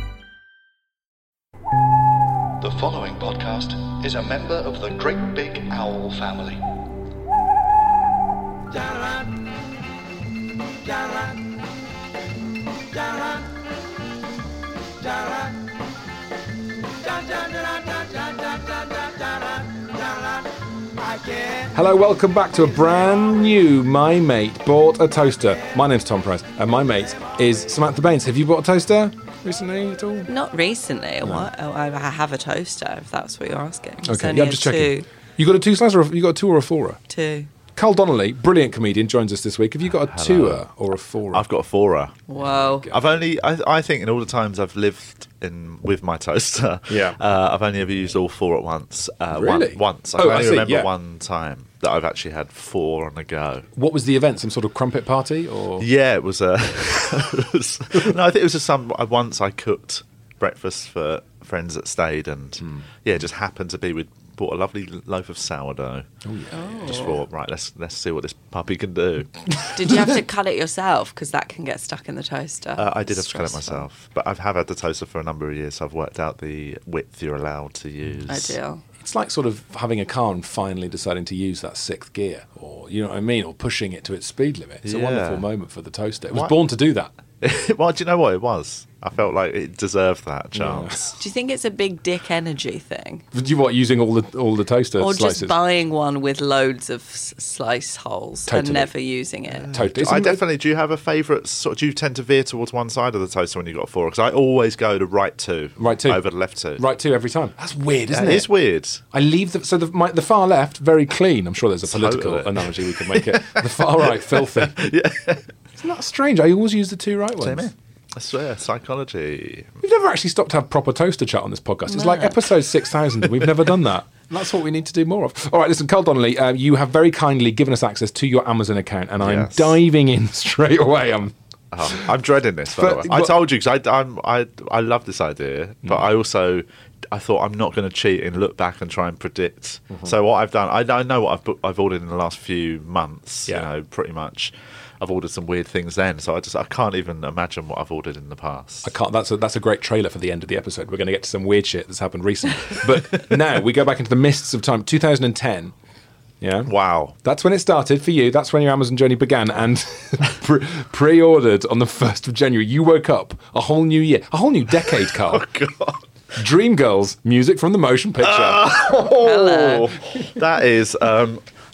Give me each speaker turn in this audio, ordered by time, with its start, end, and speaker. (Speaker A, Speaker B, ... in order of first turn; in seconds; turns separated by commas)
Speaker A: 2.6-6.5, Speaker A: 8.7-9.3, Speaker A: 10.9-11.4, Speaker A: 12.9-13.5, Speaker A: 15.0-15.5, Speaker A: 17.2-20.2, Speaker A: 21.1-21.6, Speaker B: 21.7-30.3, Speaker C: 30.3-35.0, Speaker B: 31.2-31.5, Speaker B: 34.0-37.0, Speaker C: 37.1-37.5, Speaker B: 37.7-41.5, Speaker D: 40.0-40.6, Speaker D: 41.3-42.2, Speaker C: 42.3-42.9, Speaker B: 42.4-43.1, Speaker D: 42.9-53.7, Speaker B: 46.9-47.2, Speaker B: 49.3-50.9, Speaker B: 53.7-55.9, Speaker D: 55.8-66.1, Speaker B: 62.6-62.8, Speaker B: 66.2-67.0, Speaker C: 66.5-67.2, Speaker D: 66.8-69.7, Speaker C: 69.7-73.9, Speaker D: 72.8-78.5, Speaker C: 78.3-78.8, Speaker B: 79.0-87.1, Speaker D: 84.8-85.4, Speaker D: 87.4-91.2, Speaker B: 90.5-90.9, Speaker C: 91.2-93.2, Speaker B: 93.3-95.6, Speaker C: 95.0-99.7, Speaker B: 98.5-98.9, Speaker D: 99.5-106.8, Speaker B: 99.7-100.4, Speaker B: 105.8-106.2, Speaker B: 106.8-108.5, Speaker D: 108.1-109.0, Speaker B: 109.1-114.9, Speaker D: 111.8-115.5, Speaker B: 115.8-117.7, Speaker D: 117.4-119.8, Speaker B: 119.8-132.1, Speaker C: 121.9-122.4, Speaker D: 129.2-129.8, Speaker D: 131.7-148.9, Speaker B: 132.7-133.4, Speaker B: 148.8-155.7, Speaker B: 156.4-156.7, Speaker D: 156.7-157.2, Speaker B: 157.2-165.5, Speaker D: 165.2-166.0, Speaker B: 166.4-169.0, Speaker D: 168.2-171.4, Speaker C: 169.2-169.9